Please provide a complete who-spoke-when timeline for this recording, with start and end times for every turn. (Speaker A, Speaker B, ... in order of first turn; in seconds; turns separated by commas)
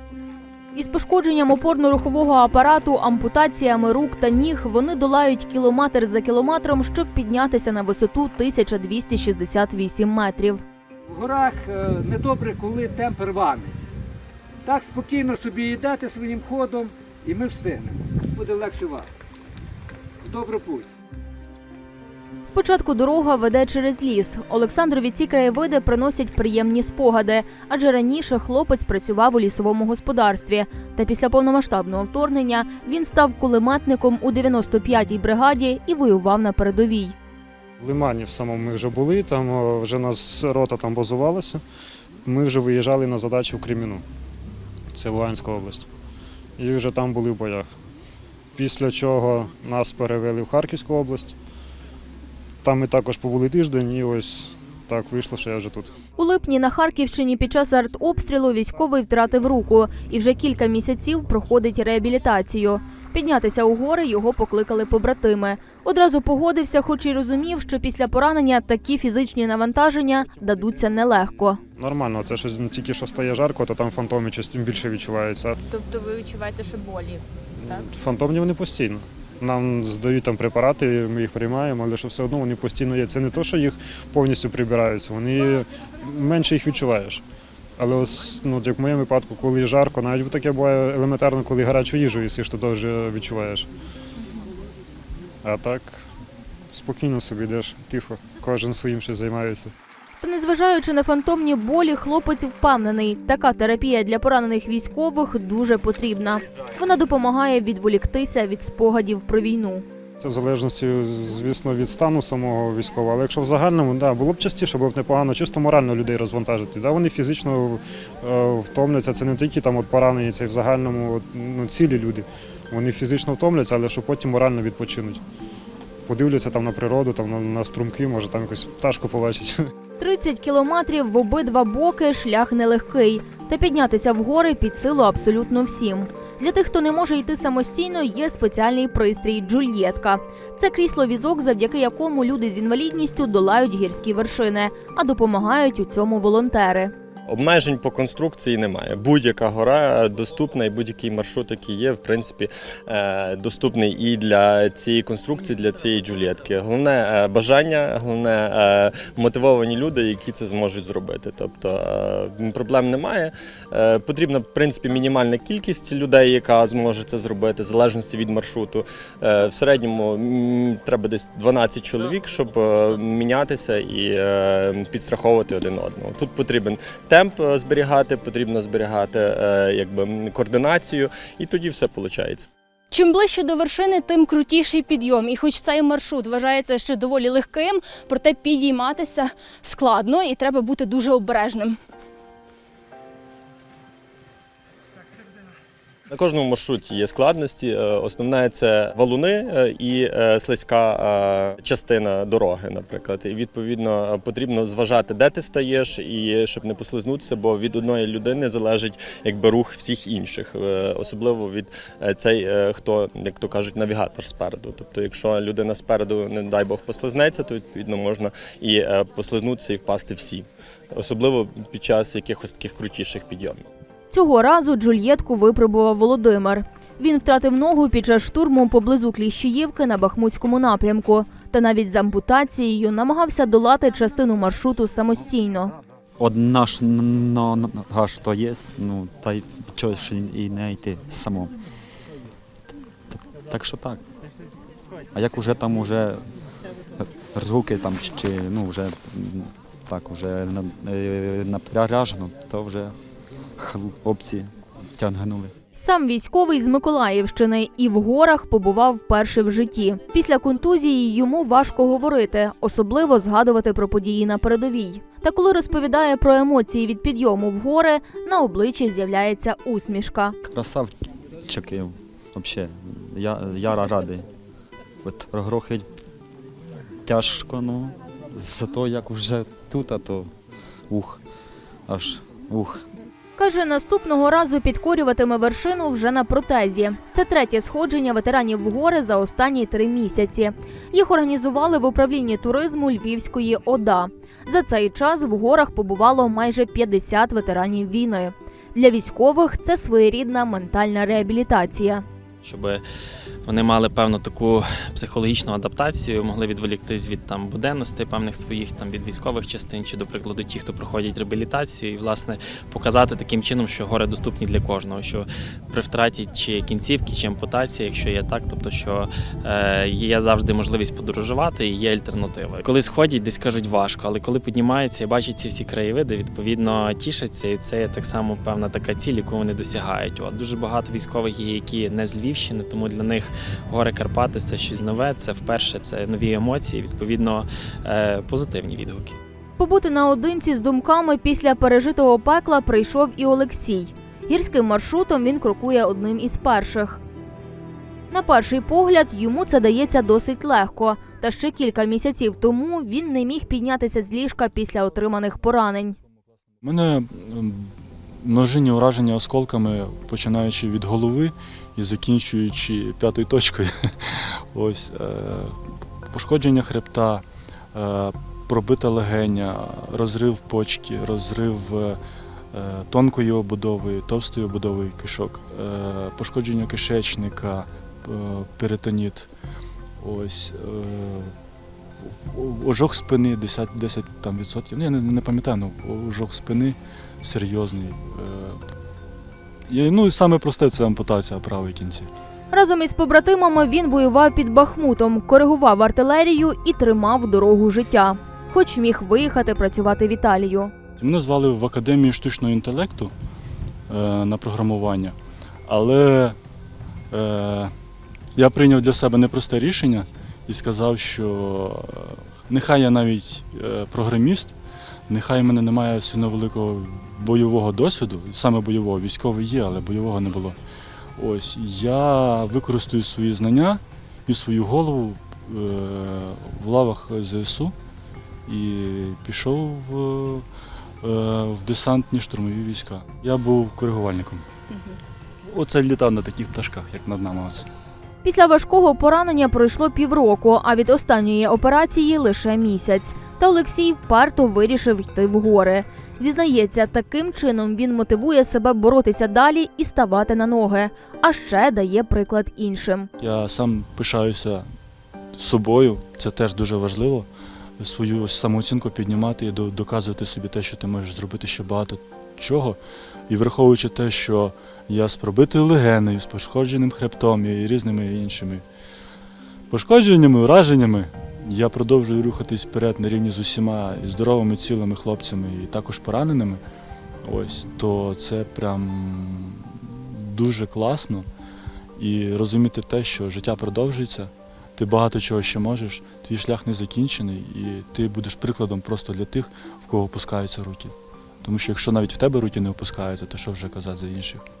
Speaker A: 0.7-10.6, Speaker B: 11.2-11.6, Speaker B: 12.2-13.5, Speaker B: 14.9-16.7, Speaker B: 17.4-17.7, Speaker A: 22.4-37.1, Speaker C: 37.8-41.6, Speaker C: 42.2-44.0, Speaker C: 44.9-45.9, Speaker C: 46.6-47.7, Speaker C: 48.5-51.4, Speaker C: 52.6-55.9, Speaker A: 56.2-71.6, Speaker C: 71.8-75.6, Speaker D: 75.7-77.2, Speaker C: 77.6-87.2, Speaker C: 87.8-93.7, Speaker C: 95.4-96.0, Speaker C: 96.7-99.7, Speaker A: 100.2-109.8, Speaker C: 110.2-125.2, Speaker C: 126.1-129.6, Speaker A: 130.0-146.9, Speaker E: 147.3-182.5, Speaker D: 182.9-191.8, Speaker E: 196.1-223.7, Speaker A: 224.1-235.7, Speaker F: 236.2-241.6, Speaker F: 243.1-244.0, Speaker F: 245.1-246.2, Speaker F: 247.0-253.0, Speaker F: 253.6-255.5, Speaker A: 255.8-270.4, Speaker F: 270.4-274.3, Speaker F: 275.0-275.9, Speaker F: 277.0-280.3, Speaker F: 280.9-281.2, Speaker F: 281.9-282.9, Speaker A: 283.4-302.0, Speaker G: 302.4-302.8, Speaker G: 303.4-339.2, Speaker A: 339.6-347.0, Speaker A: 348.1-356.0, Speaker H: 356.6-365.6, Speaker H: 366.1-372.0, Speaker H: 372.5-379.3, Speaker H: 380.0-381.3, Speaker H: 382.0-388.6, Speaker H: 389.7-392.1, Speaker A: 392.5-400.7, Speaker H: 401.0-403.1, Speaker H: 403.9-405.1, Speaker H: 405.7-406.4, Speaker H: 407.1-407.7, Speaker H: 408.4-414.5, Speaker H: 415.1-420.6, Speaker H: 421.2-427.7, Speaker H: 428.5-430.4, Speaker H: 431.0-434.5, Speaker H: 435.5-437.7, Speaker A: 438.2-453.1, Speaker H: 453.2-454.6, Speaker H: 455.3-457.3, Speaker H: 457.8-462.8, Speaker H: 463.3-468.6, Speaker H: 469.7-476.6, Speaker H: 477.2-481.2, Speaker H: 482.0-494.4